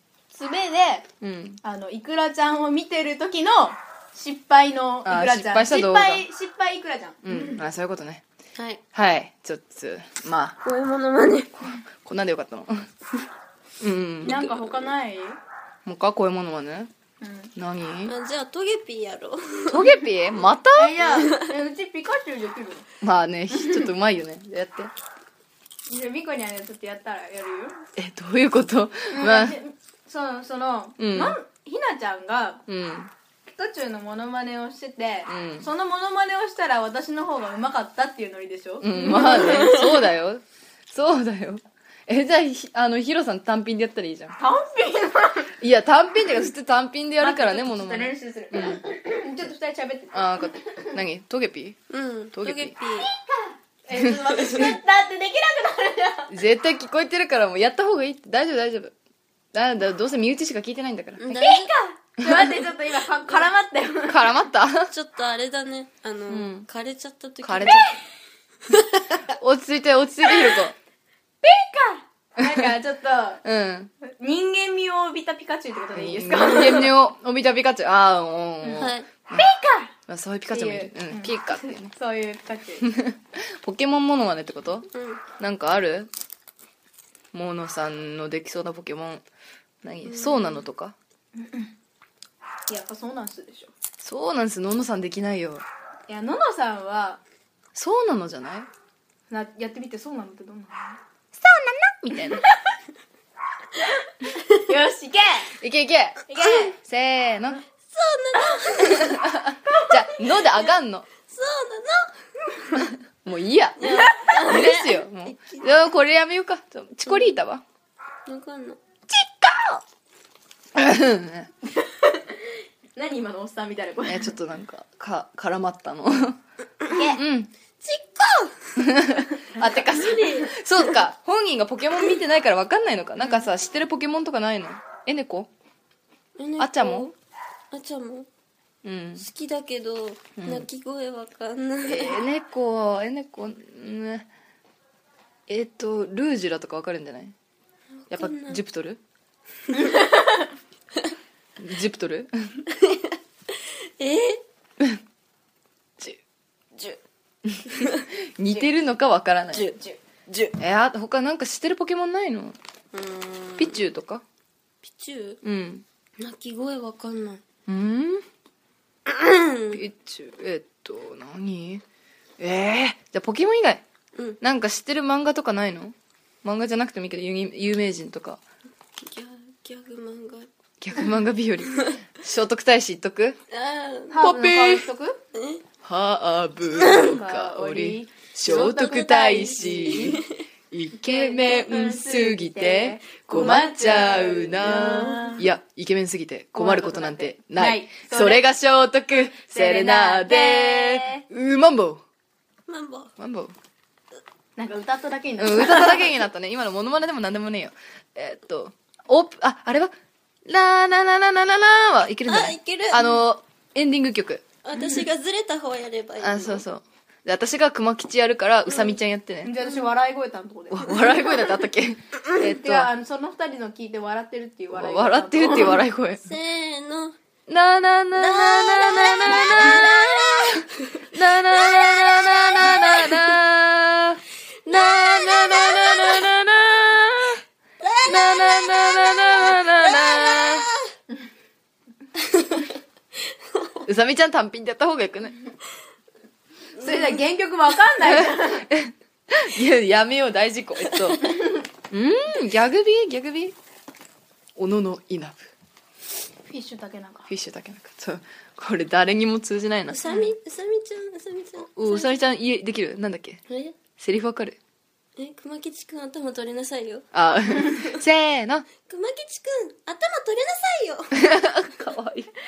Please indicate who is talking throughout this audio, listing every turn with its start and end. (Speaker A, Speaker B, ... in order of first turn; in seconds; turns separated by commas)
Speaker A: 0.3-1.1, Speaker B: 1.2-1.6, Speaker A: 1.6-7.6, Speaker B: 5.0-6.2, Speaker B: 7.2-8.2, Speaker B: 8.9-10.6, Speaker C: 10.6-11.5, Speaker B: 11.6-12.9, Speaker B: 13.8-14.5, Speaker A: 14.2-15.4, Speaker B: 15.8-16.9, Speaker A: 17.2-17.5, Speaker B: 17.6-18.1, Speaker C: 18.0-20.0, Speaker B: 19.7-21.1, Speaker A: 20.7-22.9, Speaker C: 21.1-21.5, Speaker B: 23.0-24.9, Speaker A: 23.5-23.9, Speaker A: 25.9-27.8, Speaker B: 27.9-29.6, Speaker A: 29.1-32.6, Speaker B: 31.0-31.4, Speaker B: 32.7-33.1, Speaker A: 33.5-40.0, Speaker B: 35.3-35.7, Speaker B: 38.8-44.4, Speaker C: 39.0-39.4, Speaker A: 44.4-45.5, Speaker B: 45.6-48.8, Speaker A: 47.2-51.0, Speaker B: 50.1-51.8, Speaker C: 51.9-53.1, Speaker B: 52.3-52.7, Speaker A: 53.0-56.3, Speaker B: 53.9-54.8, Speaker B: 56.3-58.9, Speaker B: 59.5-61.4, Speaker C: 61.2-61.7, Speaker A: 61.3-64.3, Speaker B: 62.2-62.5, Speaker B: 64.1-64.9, Speaker C: 64.9-67.9, Speaker B: 66.3-66.7, Speaker B: 67.4-67.8, Speaker A: 67.6-67.9, Speaker C: 68.7-69.2, Speaker B: 69.2-70.7, Speaker A: 71.4-73.4, Speaker B: 72.4-72.7, Speaker B: 73.4-73.9, Speaker A: 74.0-76.9, Speaker B: 75.9-79.5, Speaker A: 78.6-79.9, Speaker C: 78.8-79.1, Speaker B: 80.1-81.9, Speaker A: 80.5-82.9, Speaker B: 82.8-84.9, Speaker C: 84.9-85.2, Speaker B: 85.4-86.1, Speaker B: 87.3-89.2, Speaker B: 89.8-91.0, Speaker C: 90.0-90.6, Speaker A: 91.3-91.7, Speaker A: 92.7-93.7, Speaker B: 94.0-95.6, Speaker A: 96.1-97.2, Speaker B: 97.7-98.7, Speaker A: 99.3-101.0, Speaker B: 101.3-102.4, Speaker A: 104.2-105.5, Speaker B: 105.6-107.6, Speaker A: 106.3-106.8, Speaker C: 107.8-109.1, Speaker B: 108.8-111.1, Speaker A: 109.7-110.2, Speaker C: 111.2-112.8, Speaker B: 112.7-117.6, Speaker C: 113.8-115.7, Speaker A: 113.9-114.3, Speaker C: 117.1-117.3, Speaker C: 118.3-118.8, Speaker B: 119.1-119.8, Speaker B: 120.7-121.5, Speaker A: 121.7-124.3, Speaker B: 124.0-126.4, Speaker A: 126.9-127.2, Speaker B: 127.0-127.5, Speaker C: 127.8-128.8, Speaker B: 128.8-135.5, Speaker C: 129.7-130.6, Speaker C: 136.4-137.1, Speaker B: 136.6-137.1, Speaker C: 137.7-138.3, Speaker B: 138.8-139.2, Speaker C: 139.2-142.2, Speaker B: 140.4-140.7, Speaker B: 141.8-144.3, Speaker B: 145.5-147.3, Speaker C: 148.0-148.6, Speaker B: 148.1-149.0, Speaker A: 149.8-150.5, Speaker B: 151.6-152.3, Speaker C: 152.7-154.4, Speaker B: 157.4-159.7, Speaker C: 157.7-158.0, Speaker C: 159.5-160.6, Speaker B: 160.6-162.6, Speaker C: 162.9-163.8, Speaker B: 163.6-164.2, Speaker C: 164.8-165.4, Speaker B: 165.4-165.8, Speaker C: 166.2-167.4, Speaker B: 167.7-168.2, Speaker C: 169.1-169.8, Speaker B: 169.7-171.8, Speaker B: 172.4-173.8, Speaker B: 174.4-178.4, Speaker C: 179.0-180.5, Speaker B: 180.8-183.4, Speaker C: 183.5-184.2, Speaker A: 184.1-185.2, Speaker B: 184.2-184.9, Speaker C: 185.3-185.6, Speaker B: 185.8-202.0, Speaker C: 186.8-187.1, Speaker A: 186.8-190.2, Speaker C: 188.5-190.4, Speaker A: 191.0-195.5, Speaker C: 193.3-194.0, Speaker C: 194.6-195.4, Speaker A: 196.6-198.4, Speaker A: 199.1-201.2, Speaker C: 202.7-203.1, Speaker B: 203.2-203.5, Speaker A: 204.6-206.2, Speaker B: 205.4-209.9, Speaker B: 210.4-214.4, Speaker C: 212.3-213.2, Speaker C: 214.6-216.6, Speaker B: 216.2-219.6, Speaker C: 218.7-219.0, Speaker A: 219.4-221.2, Speaker B: 220.7-222.9, Speaker A: 222.4-225.8, Speaker B: 224.7-226.2, Speaker C: 226.2-227.2, Speaker B: 227.5-237.4, Speaker C: 228.1-233.2, Speaker C: 234.7-236.3, Speaker C: 237.8-240.9, Speaker B: 238.1-240.7, Speaker C: 242.2-242.7, Speaker C: 243.2-243.8, Speaker B: 243.8-245.3, Speaker A: 246.8-248.7, Speaker B: 248.0-251.3, Speaker C: 250.9-251.1, Speaker A: 251.2-251.6, Speaker B: 251.9-253.6, Speaker B: 254.6-255.5, Speaker A: 256.5-257.3, Speaker B: 257.3-260.0, Speaker C: 259.9-262.2, Speaker B: 261.6-263.4, Speaker C: 263.5-263.8, Speaker B: 264.0-264.6, Speaker C: 265.2-268.0, Speaker B: 267.1-268.7, Speaker C: 268.8-271.2, Speaker B: 271.1-272.3